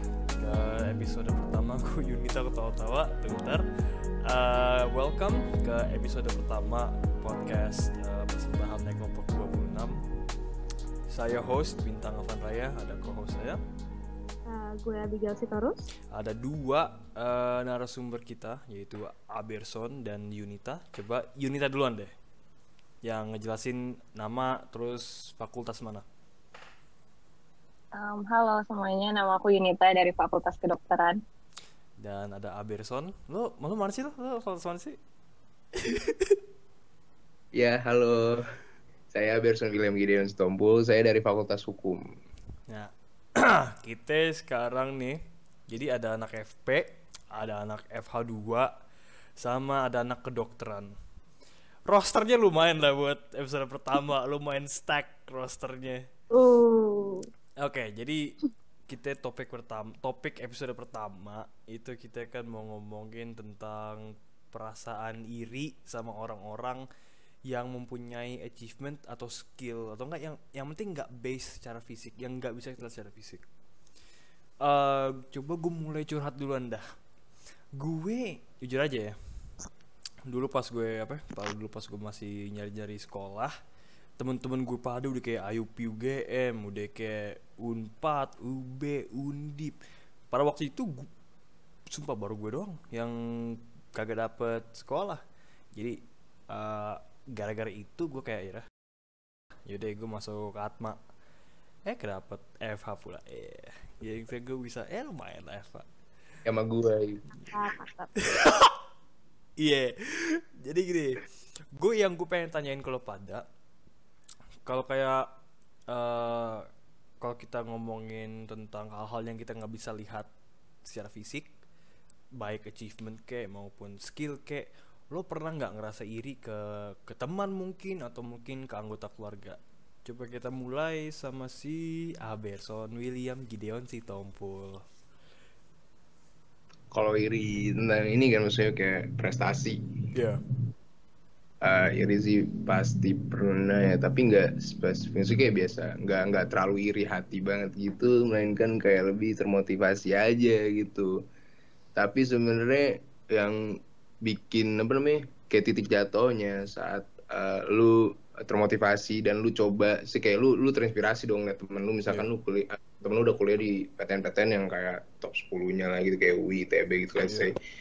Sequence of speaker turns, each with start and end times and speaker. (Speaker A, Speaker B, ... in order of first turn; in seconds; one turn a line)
Speaker A: 0.4-3.7
Speaker A: 4.2-10.0
Speaker A: 11.1-13.6
Speaker B: 14.5-15.8
Speaker A: 16.1-22.1
Speaker A: 23.0-26.1
Speaker C: 27.9-31.2
Speaker A: 32.0-35.0
Speaker A: 35.8-36.4
Speaker D: 37.5-38.4
Speaker D: 39.1-42.0
Speaker A: 42.7-48.7
Speaker A: 49.4-50.9
Speaker A: 51.9-56.1
Speaker B: 56.3-57.3
Speaker A: 57.6-58.3
Speaker A: 58.9-66.8
Speaker A: 67.5-73.4
Speaker A: 74.6-76.8
Speaker A: 77.8-79.2
Speaker A: 80.3-83.5
Speaker A: 84.2-89.7
Speaker A: 90.3-91.1
Speaker A: 91.9-95.2
Speaker A: 95.7-98.7
Speaker A: 99.7-101.0
Speaker A: 101.8-105.9
Speaker D: 106.4-107.2
Speaker B: 107.4-108.1
Speaker A: 108.2-108.7
Speaker A: 109.6-113.4
Speaker A: 114.7-115.3
Speaker A: 115.9-116.6
Speaker A: 117.2-120.3
Speaker A: 120.8-121.5
Speaker A: 122.4-134.8
Speaker D: 136.9-139.9
Speaker A: 140.1-140.4
Speaker D: 141.6-151.2
Speaker D: 151.9-167.6
Speaker A: 167.2-167.5